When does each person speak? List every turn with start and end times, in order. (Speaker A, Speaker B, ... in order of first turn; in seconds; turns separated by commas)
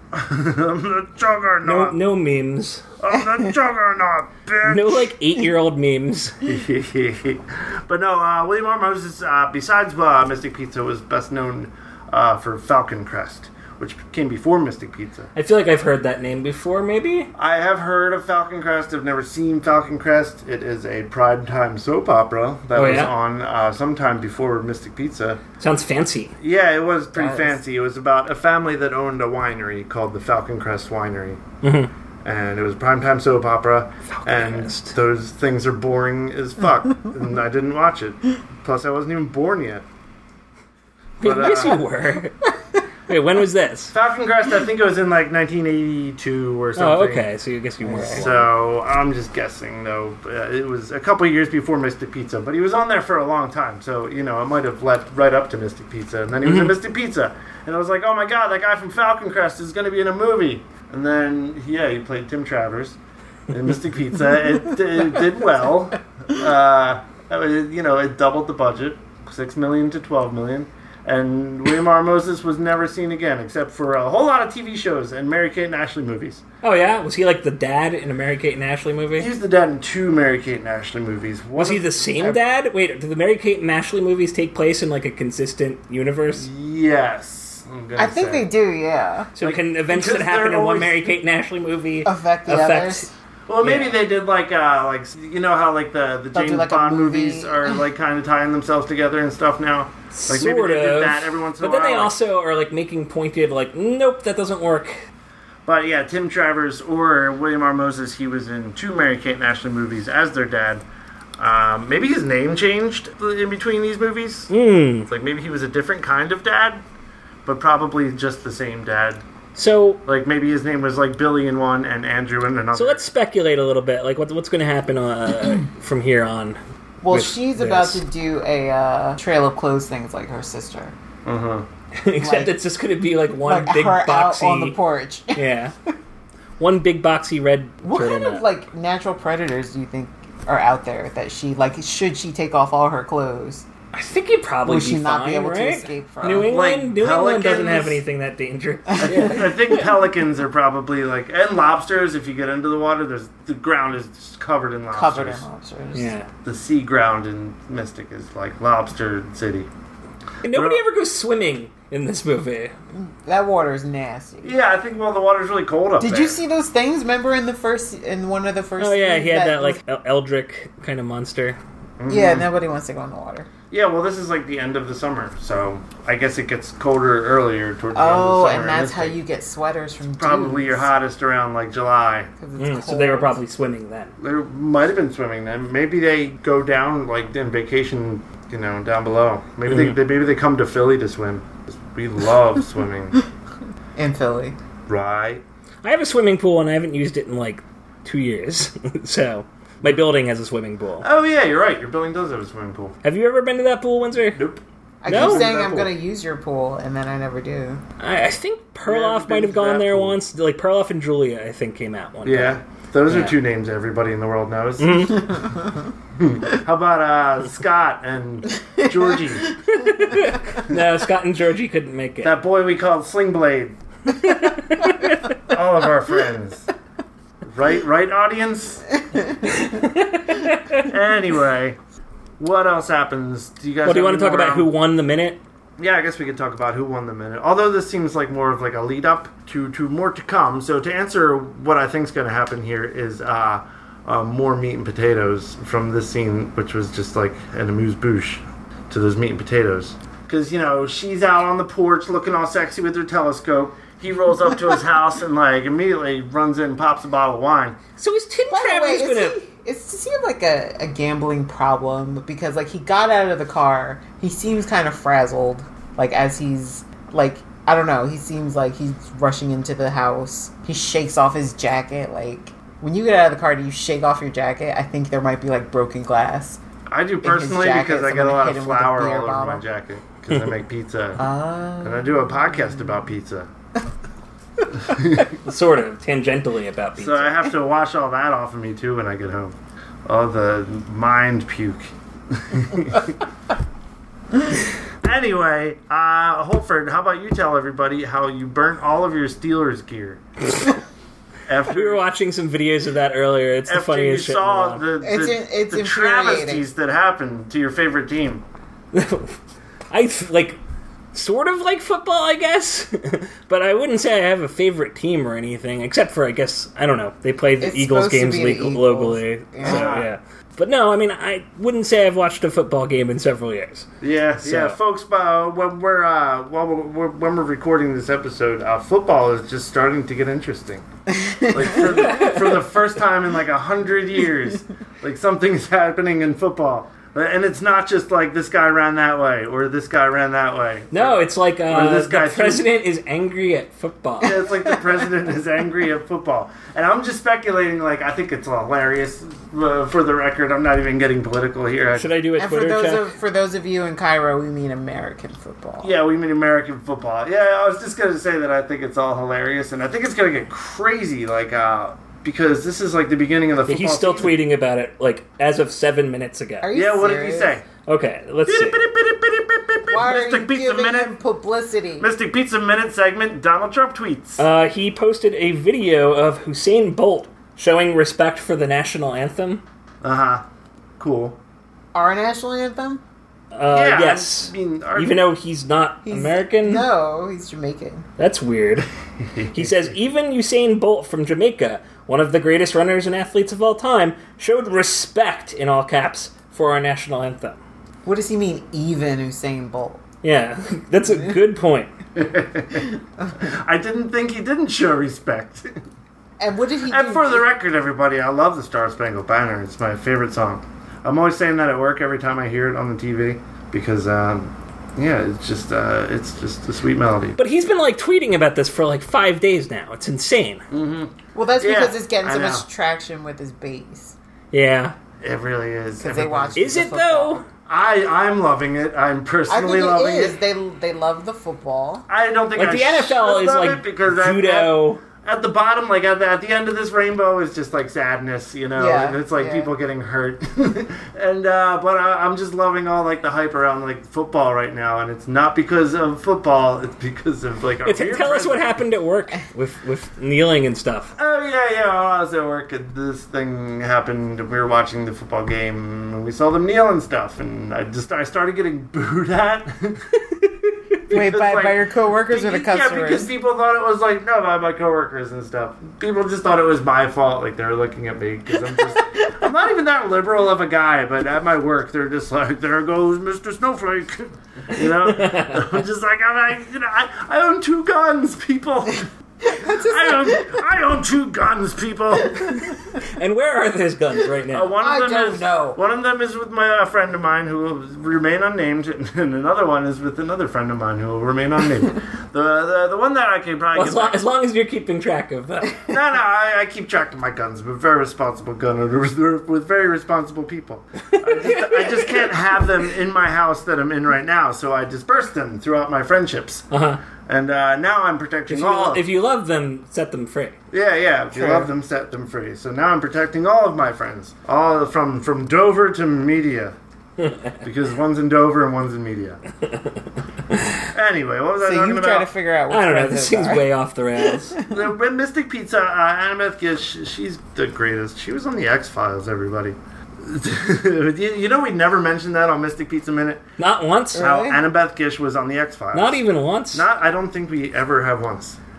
Speaker A: 0.1-2.0, Speaker B: 1.6-2.9, Speaker A: 3.0-5.2, Speaker B: 4.7-6.4, Speaker A: 6.4-15.3, Speaker B: 15.3-17.3, Speaker A: 17.4-25.4, Speaker B: 22.7-23.1, Speaker B: 25.6-26.3, Speaker A: 26.4-31.4, Speaker C: 27.2-27.5, Speaker B: 31.6-31.9, Speaker A: 32.2-39.9, Speaker B: 34.1-34.9, Speaker B: 41.2-42.5, Speaker A: 41.2-41.8, Speaker B: 43.1-43.9, Speaker A: 43.9-47.3, Speaker B: 46.8-48.5, Speaker A: 47.8-63.0, Speaker C: 47.9-48.2, Speaker B: 56.4-56.8, Speaker A: 63.5-76.4, Speaker B: 76.6-79.3, Speaker A: 79.2-82.4, Speaker B: 81.6-86.5, Speaker A: 86.3-88.5, Speaker C: 88.0-89.3, Speaker B: 89.4-93.0, Speaker A: 89.4-91.1, Speaker C: 92.0-93.1, Speaker A: 93.5-102.2, Speaker B: 93.6-94.0, Speaker C: 96.3-97.8, Speaker B: 100.1-105.0, Speaker A: 105.7-110.8, Speaker A: 111.4-114.5, Speaker B: 114.5-115.1, Speaker A: 115.1-116.8, Speaker A: 117.5-119.2, Speaker B: 119.6-120.0, Speaker A: 120.1-123.0, Speaker B: 122.8-126.6, Speaker C: 127.0-130.9, Speaker B: 127.1-128.0, Speaker A: 131.2-131.7, Speaker B: 132.0-134.8, Speaker C: 132.2-132.6, Speaker C: 133.4-135.4, Speaker B: 135.3-135.7, Speaker B: 136.6-138.5, Speaker C: 137.8-143.7, Speaker B: 143.9-149.9, Speaker C: 144.7-146.5, Speaker A: 146.4-148.0, Speaker A: 149.0-155.4, Speaker C: 154.9-156.1, Speaker B: 155.9-156.3, Speaker A: 156.4-159.7, Speaker B: 160.4-162.7, Speaker A: 160.5-160.8, Speaker C: 163.0-164.6, Speaker A: 164.4-166.4, Speaker C: 166.0-169.8, Speaker B: 168.8-171.6, Speaker A: 172.0-172.5, Speaker C: 172.1-173.5, Speaker A: 173.7-179.2, Speaker C: 177.9-180.9, Speaker A: 180.2-182.3, Speaker C: 182.4-183.4, Speaker B: 182.6-184.1, Speaker A: 184.2-193.2, Speaker B: 189.7-189.9, Speaker C: 194.0-194.6, Speaker A: 194.9-195.4, Speaker B: 195.8-201.1, Speaker A: 201.0-203.0, Speaker B: 203.0-204.4, Speaker A: 204.3-205.9, Speaker C: 205.0-207.8, Speaker B: 205.1-205.5, Speaker B: 208.0-213.4, Speaker A: 208.9-210.2, Speaker A: 212.2-215.6, Speaker B: 214.8-215.5, Speaker A: 216.2-219.6, Speaker B: 219.7-222.4, Speaker A: 222.2-223.8, Speaker B: 224.1-225.3, Speaker A: 225.4-226.7, Speaker A: 227.4-228.9, Speaker B: 229.5-230.8, Speaker A: 230.8-231.8, Speaker A: 232.4-234.7, Speaker B: 233.8-235.4, Speaker A: 235.8-257.8, Speaker B: 258.0-259.4, Speaker C: 258.5-276.6, Speaker A: 276.9-281.2, Speaker C: 277.2-279.6, Speaker C: 281.2-282.9, Speaker A: 281.8-283.5, Speaker A: 284.8-285.3, Speaker B: 285.2-287.5, Speaker A: 287.0-293.2, Speaker A: 295.0-300.2, Speaker A: 301.5-302.0, Speaker B: 301.7-304.8, Speaker A: 303.7-308.4, Speaker C: 305.0-306.6, Speaker B: 308.9-309.4, Speaker B: 309.9-310.6, Speaker B: 311.1-323.9, Speaker C: 317.6-319.9, Speaker A: 319.6-320.1, Speaker A: 324.0-330.9, Speaker B: 324.4-324.8, Speaker C: 331.1-331.8, Speaker A: 331.5-342.7, Speaker B: 331.7-332.6, Speaker B: 340.9-344.4, Speaker A: 344.2-352.1, Speaker B: 352.0-353.1, Speaker C: 352.4-355.9, Speaker A: 355.8-364.4, Speaker B: 363.7-366.7, Speaker C: 366.6-367.6, Speaker A: 366.7-367.7, Speaker B: 367.9-368.8, Speaker A: 368.5-371.2, Speaker C: 369.9-372.1, Speaker A: 372.0-374.4, Speaker B: 374.4-379.6, Speaker A: 380.0-380.4, Speaker A: 381.0-381.4, Speaker C: 381.9-383.0, Speaker B: 383.5-386.9, Speaker A: 383.7-385.2, Speaker C: 386.1-388.1, Speaker B: 388.2-388.9, Speaker A: 389.3-390.0, Speaker B: 389.6-397.6, Speaker C: 398.1-400.0, Speaker B: 400.2-401.9, Speaker A: 402.2-405.8, Speaker C: 406.4-407.5, Speaker A: 406.9-417.4, Speaker B: 417.4-420.6, Speaker A: 420.7-422.6, Speaker C: 421.4-424.1, Speaker B: 424.5-424.9, Speaker A: 425.2-426.6, Speaker C: 426.0-427.4, Speaker B: 426.6-427.4, Speaker A: 427.7-430.4, Speaker C: 429.5-432.1, Speaker A: 432.1-448.8, Speaker B: 432.6-435.0, Speaker C: 438.8-439.7, Speaker B: 447.9-451.1, Speaker A: 451.2-460.1, Speaker A: 461.1-482.7, Speaker C: 461.1-463.3, Speaker B: 474.9-475.7, Speaker C: 479.5-480.5, Speaker B: 482.9-484.7, Speaker A: 484.5-494.2, Speaker C: 484.8-485.8, Speaker B: 493.8-495.9, Speaker A: 495.9-506.7, Speaker B: 501.1-502.2, Speaker B: 506.7-507.0, Speaker A: 507.3-509.1, Speaker B: 508.5-510.6, Speaker A: 510.7-516.8, Speaker C: 511.3-511.7, Speaker B: 517.2-517.5, Speaker A: 517.6-519.4, Speaker B: 520.5-520.9, Speaker A: 520.9-522.3, Speaker C: 521.6-523.7, Speaker B: 522.7-524.6, Speaker C: 524.3-524.8, Speaker A: 524.7-533.4, Speaker B: 533.6-534.2, Speaker C: 534.1-534.6, Speaker A: 534.1-538.6, Speaker B: 535.9-536.9